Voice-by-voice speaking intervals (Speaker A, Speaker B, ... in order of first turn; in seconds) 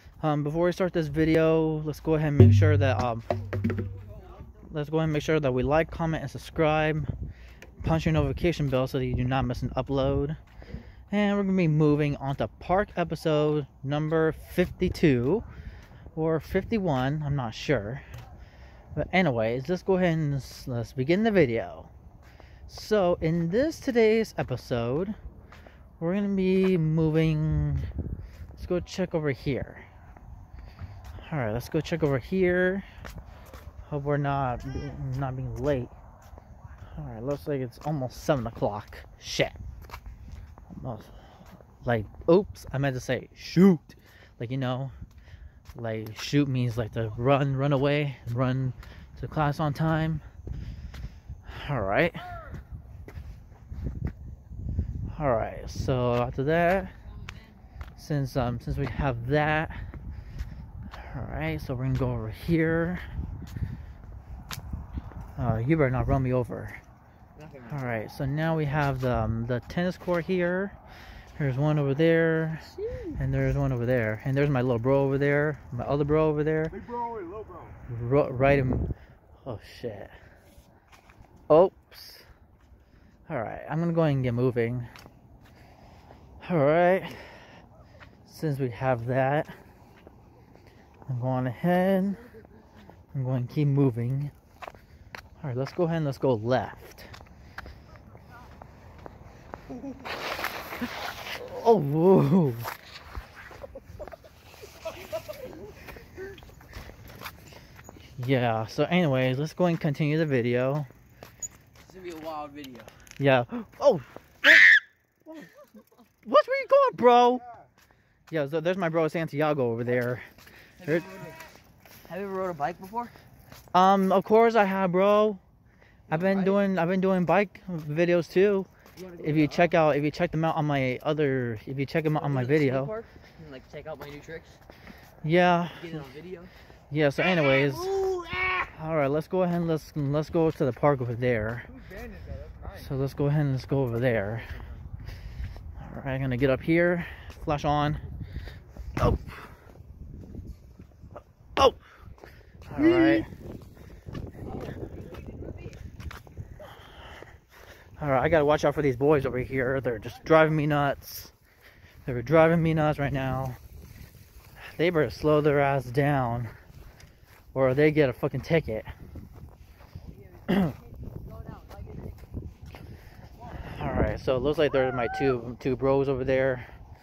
Speaker A: 0.2-3.3, 4.6-7.1, 7.8-10.4, 11.1-15.5, 16.1-18.0, 18.9-21.9, 22.7-25.2, 26.0-27.9, 28.6-29.9, 31.3-32.9, 33.9-35.9, 37.0-39.6, 40.7-41.1, 41.8-44.9, 45.7-50.2, 51.5-52.3, 55.1-56.9, 58.0-59.8, 61.0-63.0, 65.4-66.8, 67.7-70.8, 71.4-76.8, 77.9-78.9, 79.5-80.1, 81.5-82.3, 83.3-84.9, 86.4-87.2, 88.3-89.6, 91.1-92.2, 93.1-94.3, 95.4-97.1, 101.3-102.7, 108.2-110.9, 113.2-114.6, 116.2-117.5, 118.3-120.3, 120.8-121.1, 123.7-125.4, 126.1-132.9, 135.2-136.1, 136.9-137.9, 138.8-141.7, 142.8-144.5, 145.8-148.0, 152.7-153.3, 158.0-161.3, 162.1-163.6, 164.7-166.5, 167.5-168.9, 170.5-170.8, 173.6-176.7
Speaker B: 67.4-68.1, 72.7-73.2, 111.8-112.9, 120.8-121.4, 122.1-123.1, 126.1-126.6, 129.0-129.7, 132.1-134.6, 135.7-136.5, 144.2-144.7, 170.8-172.1
Speaker C: 76.7-77.7, 137.4-138.6, 141.9-142.7, 152.8-153.2